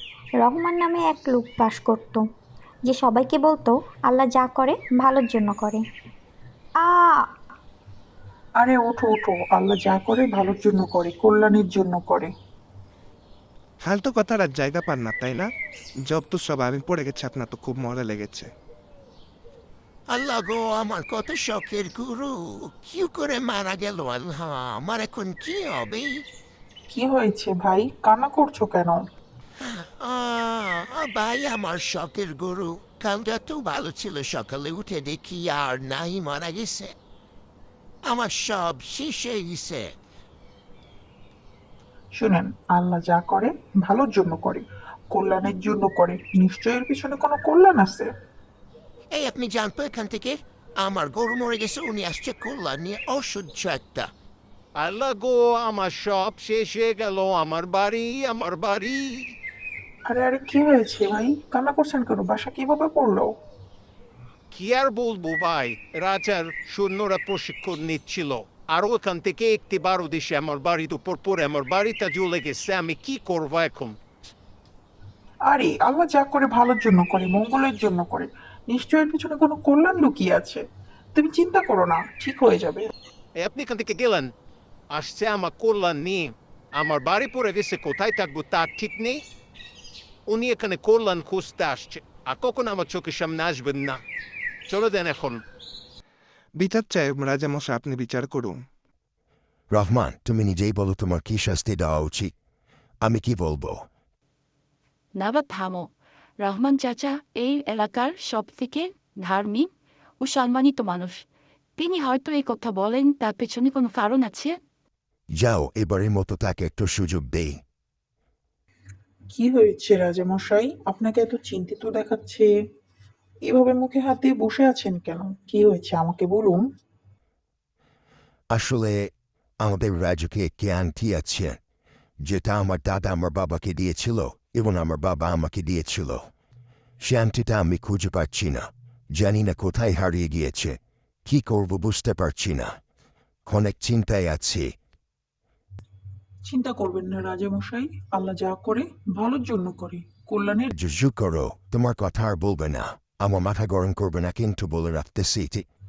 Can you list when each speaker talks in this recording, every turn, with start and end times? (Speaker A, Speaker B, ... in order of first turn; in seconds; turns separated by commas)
Speaker A: 0.4-2.2, Speaker A: 2.9-5.8, Speaker A: 6.8-7.2, Speaker B: 8.6-12.3, Speaker C: 13.8-15.5, Speaker C: 16.0-18.5, Speaker D: 20.1-22.3, Speaker D: 22.9-26.1, Speaker B: 26.9-29.0, Speaker D: 30.0-36.9, Speaker D: 38.1-39.9, Speaker B: 42.1-48.1, Speaker D: 49.1-54.1, Speaker E: 54.8-59.2, Speaker B: 60.1-63.3, Speaker E: 64.5-73.9, Speaker B: 75.5-80.6, Speaker B: 81.2-82.9, Speaker E: 83.4-84.3, Speaker E: 84.9-86.2, Speaker E: 86.8-89.2, Speaker E: 90.3-94.0, Speaker E: 94.7-95.4, Speaker C: 96.5-98.6, Speaker F: 99.7-102.3, Speaker F: 103.0-103.8, Speaker G: 105.1-111.2, Speaker G: 111.8-114.6, Speaker F: 115.3-117.6, Speaker B: 119.3-122.5, Speaker B: 123.5-126.7, Speaker F: 128.5-129.1, Speaker F: 129.6-131.6, Speaker F: 132.2-136.3, Speaker F: 137.0-142.7, Speaker F: 143.5-144.7, Speaker B: 146.5-150.7, Speaker F: 150.7-155.7